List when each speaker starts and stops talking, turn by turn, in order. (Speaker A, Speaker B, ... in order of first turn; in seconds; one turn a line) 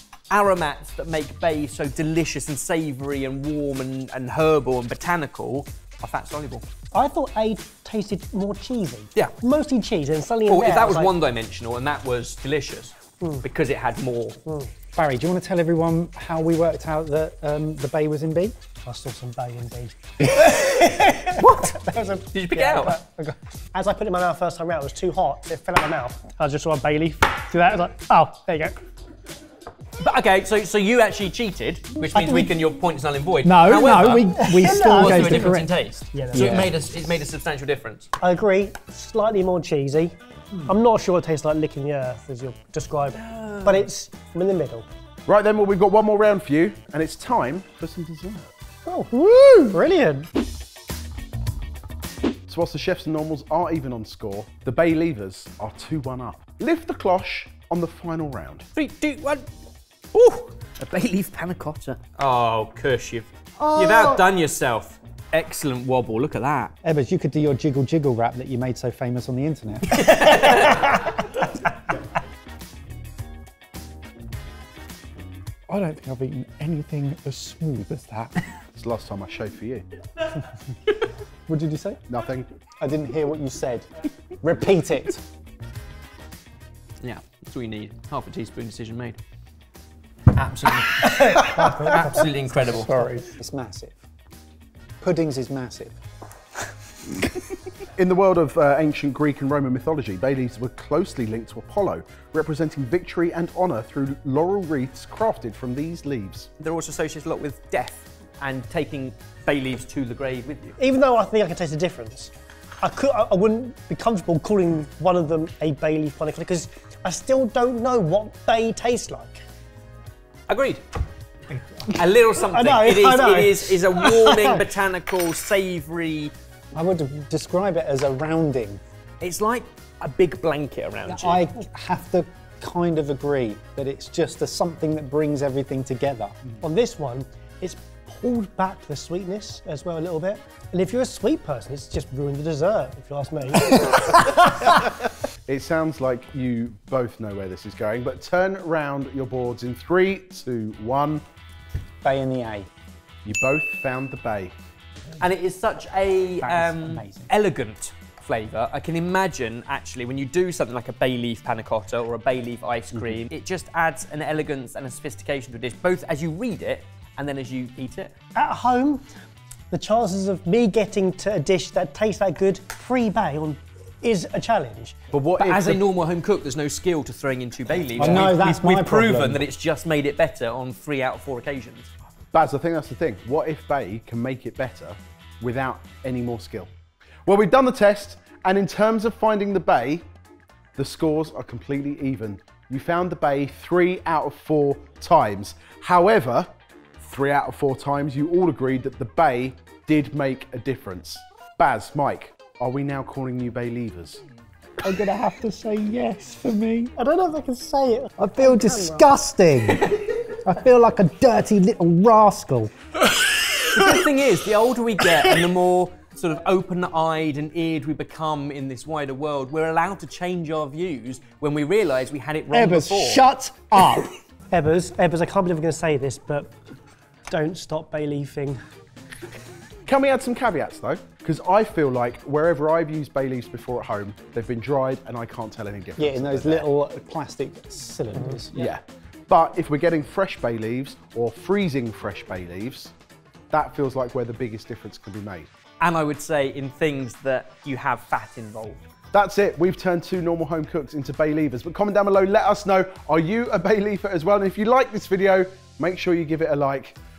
Speaker A: 0.3-6.6
Speaker B: 6.9-11.2
Speaker A: 10.4-14.4
Speaker B: 13.2-13.4
Speaker B: 14.4-14.7
Speaker C: 14.9-18.6
Speaker B: 18.8-28.8
Speaker A: 21.4-23.0
Speaker A: 30.0-38.1
Speaker B: 32.1-32.5
Speaker C: 33.4-35.7
Speaker B: 34.4-35.6
Speaker B: 36.1-36.8
Speaker C: 36.3-36.7
Speaker B: 38.2-40.1
Speaker B: 40.6-44.9
Speaker A: 43.1-43.9
Speaker D: 45.3-48.5
Speaker B: 48.9-50.3
Speaker D: 52.5-58.6
Speaker A: 58.7-59.5
Speaker A: 60.1-66.7
Speaker C: 63.7-64.2
Speaker C: 66.8-70.4
Speaker A: 69.9-71.1
Speaker C: 75.7-78.3
Speaker D: 78.8-79.8
Speaker C: 81.5-82.0
Speaker D: 82.1-82.5
Speaker C: 82.8-83.9
Speaker C: 84.4-85.2
Speaker A: 87.0-89.2
Speaker A: 90.3-93.0
Speaker B: 91.0-92.3
Speaker C: 92.5-94.0
Speaker C: 95.0-96.0
Speaker D: 98.0-106.5
Speaker A: 106.6-110.8
Speaker B: 110.8-119.4
Speaker A: 120.5-120.8
Speaker A: 121.8-126.3
Speaker B: 122.4-124.7
Speaker C: 126.7-128.8
Speaker A: 129.2-131.4
Speaker C: 131.1-136.3
Speaker B: 136.6-144.6
Speaker D: 145.5-151.2
Speaker C: 152.0-152.7
Speaker D: 153.2-154.5
Speaker A: 155.2-168.1
Speaker C: 156.4-157.3
Speaker B: 168.3-169.0
Speaker B: 169.7-175.0
Speaker D: 175.1-175.8
Speaker A: 175.3-181.9
Speaker C: 177.9-179.4
Speaker D: 182.3-186.7
Speaker D: 187.2-190.1
Speaker D: 190.8-204.2
Speaker C: 204.8-206.9
Speaker B: 207.0-209.1
Speaker C: 208.2-209.9
Speaker C: 210.4-212.7
Speaker A: 213.7-223.2
Speaker C: 222.5-224.1
Speaker B: 224.5-226.5
Speaker B: 227.3-228.6
Speaker D: 229.8-236.7
Speaker C: 236.0-238.5
Speaker B: 238.2-238.7
Speaker D: 238.5-242.9
Speaker D: 243.5-245.5
Speaker A: 245.8-248.8
Speaker D: 249.1-257.0